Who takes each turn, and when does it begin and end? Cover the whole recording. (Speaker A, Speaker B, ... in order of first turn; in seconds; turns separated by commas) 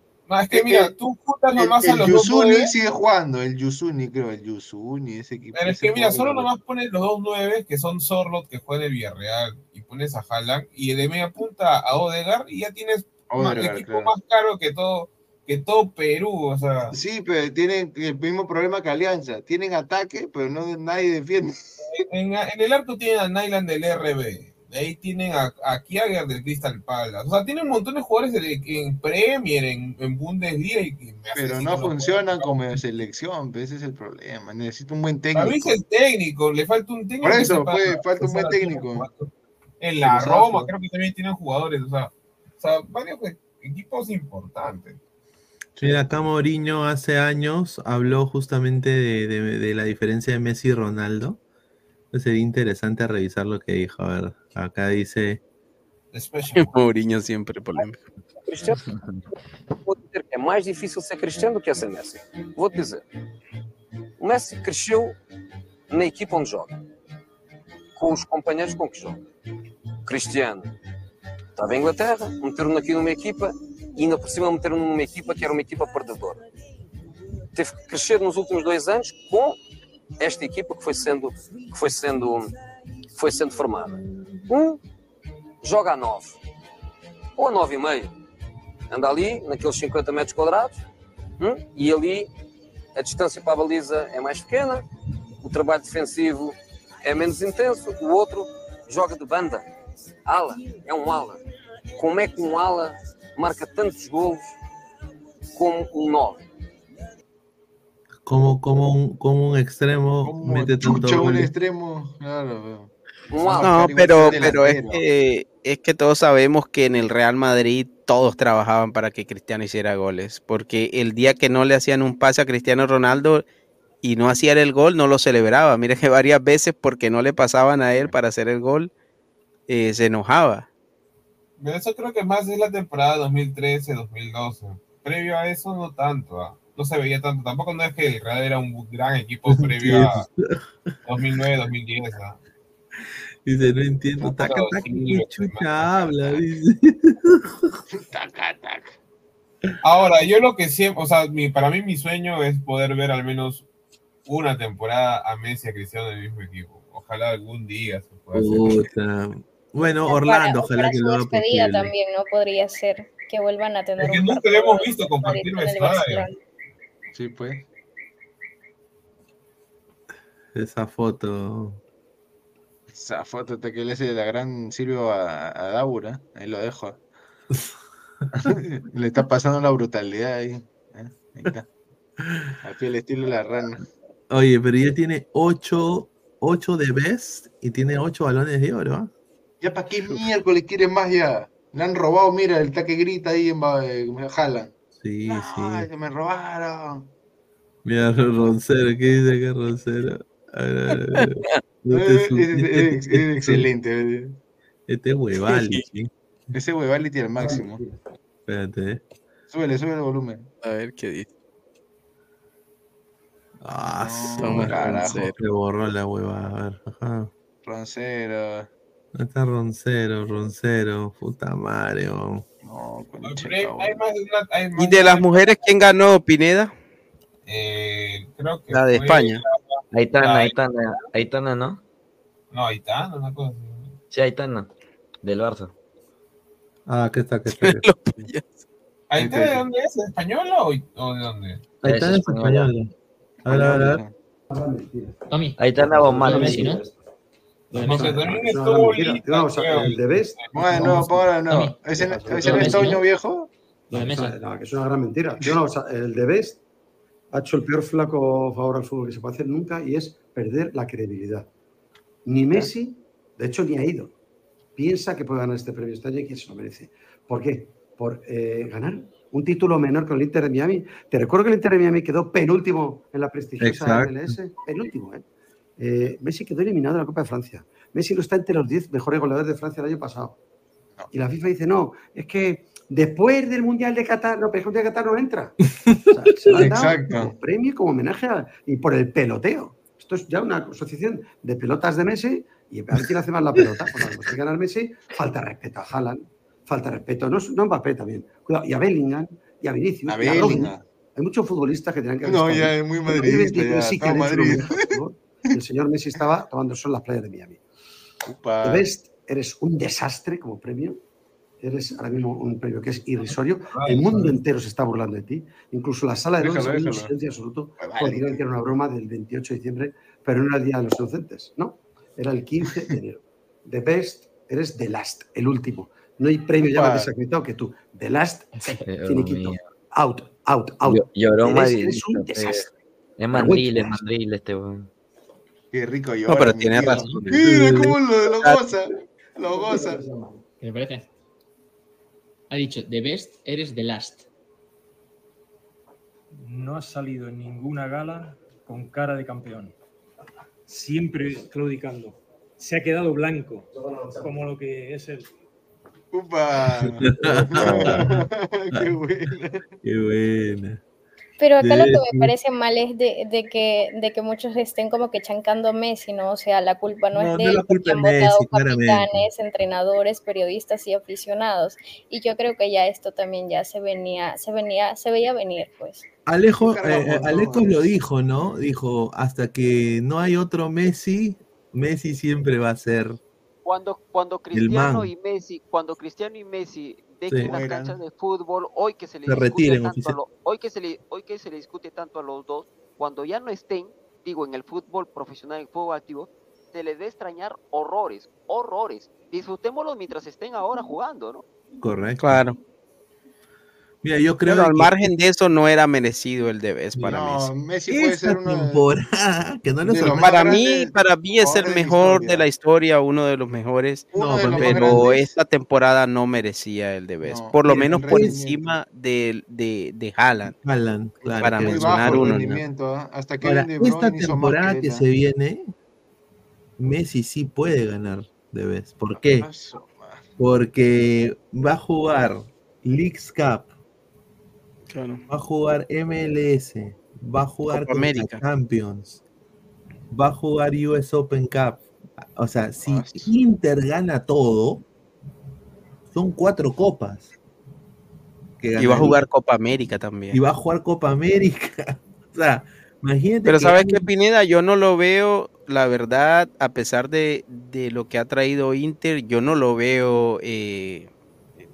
Speaker A: 0.3-2.7, Speaker B: 0.5-0.9, Speaker B: 1.6-6.5, Speaker A: 5.5-16.9, Speaker B: 13.3-14.1, Speaker B: 16.9-21.8, Speaker A: 21.9-32.5, Speaker B: 31.3-35.8, Speaker A: 35.3-45.0, Speaker B: 37.2-39.0, Speaker B: 40.0-40.7, Speaker B: 45.8-46.0, Speaker C: 45.8-51.4, Speaker C: 52.1-55.4, Speaker D: 56.1-56.5, Speaker E: 56.5-58.0, Speaker D: 58.5-58.8, Speaker D: 59.8-63.0, Speaker D: 64.2-65.1, Speaker D: 65.9-66.8, Speaker D: 68.0-69.2, Speaker D: 70.0-70.7, Speaker D: 71.5-76.4, Speaker D: 77.5-79.6, Speaker D: 80.2-82.5, Speaker D: 83.1-84.8, Speaker D: 85.6-86.4, Speaker D: 87.4-88.1, Speaker D: 88.9-90.7, Speaker D: 91.4-92.3, Speaker D: 92.9-94.8, Speaker D: 95.4-99.6, Speaker D: 100.2-101.4, Speaker D: 102.0-104.4, Speaker D: 105.5-106.5, Speaker C: 108.2-111.5, Speaker B: 110.2-115.0, Speaker D: 113.3-114.4, Speaker E: 113.6-123.4, Speaker E: 124.0-128.9, Speaker E: 129.7-130.7, Speaker A: 131.6-140.2, Speaker C: 139.5-140.6, Speaker A: 141.1-142.4, Speaker C: 143.4-147.8, Speaker A: 144.2-146.4, Speaker B: 147.9-148.9, Speaker A: 149.8-153.7, Speaker A: 154.2-158.8, Speaker C: 158.3-161.9, Speaker F: 160.0-166.4, Speaker A: 164.0-166.3, Speaker B: 167.1-167.6, Speaker C: 170.5-171.8, Speaker B: 172.9-177.0, Speaker B: 178.3-181.7, Speaker B: 182.6-183.8, Speaker C: 184.3-189.1, Speaker B: 189.6-194.7, Speaker C: 194.9-195.9, Speaker B: 195.3-197.1, Speaker C: 197.8-203.7, Speaker B: 201.9-204.4, Speaker C: 204.9-206.1, Speaker E: 205.5-205.8, Speaker B: 206.5-207.8, Speaker G: 207.4-207.9, Speaker C: 208.5-209.0, Speaker B: 209.5-210.5, Speaker E: 210.6-211.3, Speaker C: 213.6-217.3, Speaker B: 214.0-215.3, Speaker E: 214.3-215.3, Speaker B: 217.6-218.7, Speaker C: 219.1-222.4, Speaker B: 222.6-224.0, Speaker A: 223.2-225.7, Speaker E: 224.8-226.7, Speaker A: 227.4-231.0, Speaker E: 228.7-229.4, Speaker H: 229.9-231.8, Speaker A: 232.5-233.9, Speaker H: 234.1-234.7, Speaker H: 235.2-235.7, Speaker C: 236.9-237.9, Speaker E: 237.6-238.4, Speaker A: 239.1-241.6, Speaker B: 239.2-239.6, Speaker C: 241.8-242.9, Speaker H: 241.8-242.7, Speaker C: 243.4-244.0, Speaker B: 243.4-244.1, Speaker G: 243.5-243.8, Speaker G: 244.5-245.3, Speaker I: 245.3-246.8, Speaker H: 245.6-246.9, Speaker G: 245.9-246.9, Speaker A: 247.7-250.9, Speaker I: 247.7-248.5, Speaker G: 247.7-251.4, Speaker B: 250.5-253.5, Speaker I: 251.5-253.0, Speaker G: 251.9-253.0, Speaker G: 253.9-256.6, Speaker I: 253.9-254.4, Speaker G: 257.3-261.5, Speaker G: 262.2-264.1, Speaker G: 264.8-275.2, Speaker C: 273.6-274.3, Speaker G: 275.8-280.4, Speaker G: 281.1-285.6, Speaker G: 286.1-307.6, Speaker C: 286.5-286.8, Speaker B: 286.5-287.3, Speaker B: 300.1-300.8, Speaker B: 302.2-304.9, Speaker B: 308.2-308.9, Speaker G: 308.6-311.0, Speaker G: 311.6-332.7, Speaker A: 313.7-314.3, Speaker B: 316.4-317.1, Speaker B: 317.8-318.4, Speaker B: 326.7-327.1, Speaker H: 328.8-329.7, Speaker H: 330.8-332.7, Speaker H: 333.2-334.9, Speaker G: 333.3-334.0, Speaker B: 335.7-340.2, Speaker E: 336.3-337.7, Speaker C: 337.3-337.9, Speaker G: 339.5-340.3, Speaker I: 340.6-341.1, Speaker I: 342.5-344.2, Speaker J: 346.4-349.7, Speaker J: 350.7-355.3, Speaker B: 356.1-359.7, Speaker C: 357.0-358.9, Speaker C: 359.8-360.8, Speaker F: 361.4-376.1, Speaker C: 361.6-362.3, Speaker C: 367.1-369.2, Speaker C: 376.2-383.2, Speaker B: 376.6-378.6, Speaker K: 383.6-401.4, Speaker C: 384.5-385.1, Speaker C: 387.3-387.5, Speaker B: 387.4-388.0, Speaker C: 389.2-390.2, Speaker C: 401.8-402.4, Speaker E: 402.2-402.6, Speaker C: 404.0-405.1, Speaker E: 404.4-407.5, Speaker B: 407.0-408.8, Speaker C: 407.9-410.4, Speaker B: 409.8-412.4, Speaker E: 410.1-420.5, Speaker B: 414.1-415.3, Speaker C: 414.1-415.1, Speaker B: 417.2-418.7, Speaker C: 417.6-418.4, Speaker C: 420.4-422.6, Speaker B: 421.2-425.0, Speaker E: 421.4-422.6, Speaker C: 423.4-425.7, Speaker C: 426.8-429.5, Speaker B: 429.1-430.2, Speaker C: 430.4-433.7, Speaker E: 434.9-435.2, Speaker C: 435.3-439.2, Speaker E: 437.7-438.4, Speaker C: 440.1-441.9, Speaker C: 442.4-444.8, Speaker B: 442.8-443.3, Speaker C: 446.1-447.3, Speaker C: 448.6-449.2, Speaker E: 448.8-450.4, Speaker C: 450.3-454.0, Speaker E: 453.4-461.1